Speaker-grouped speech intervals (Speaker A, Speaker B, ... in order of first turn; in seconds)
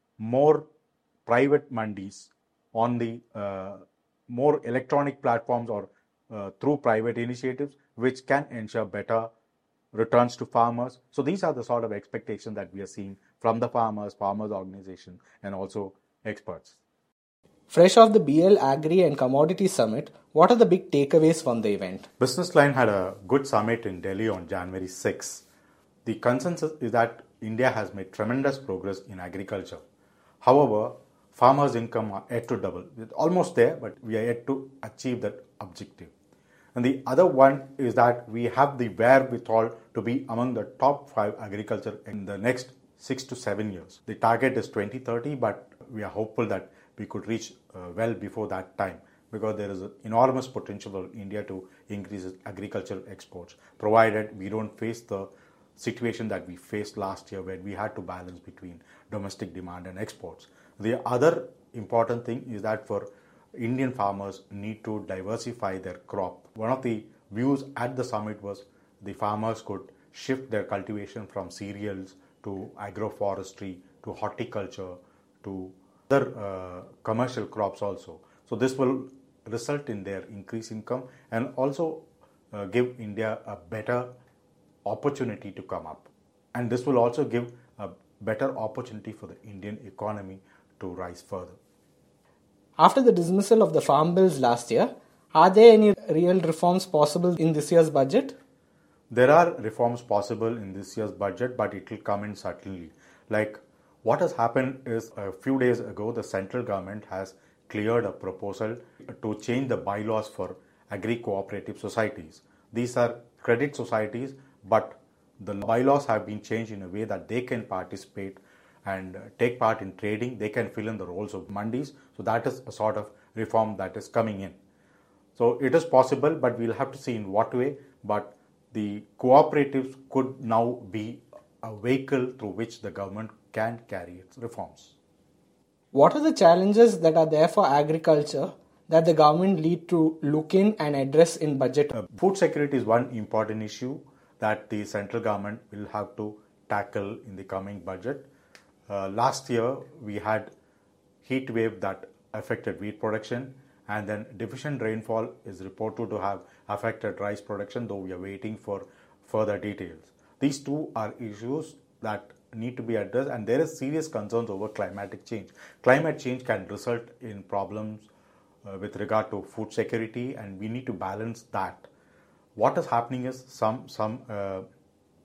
Speaker A: 0.2-0.7, 1.3-9.3, 9.9-16.8, 22.2-25.4, 26.1-29.8, 30.4-36.1, 36.8-84.1, 84.8-91.6, 99.1-124.6, 125.4-134.9, 141.9-148.3, 148.9-150.5, 151.2-168.1, 168.7-171.9, 172.6-174.7
Speaker B: 17.7-22.1, 92.8-98.4, 135.9-141.9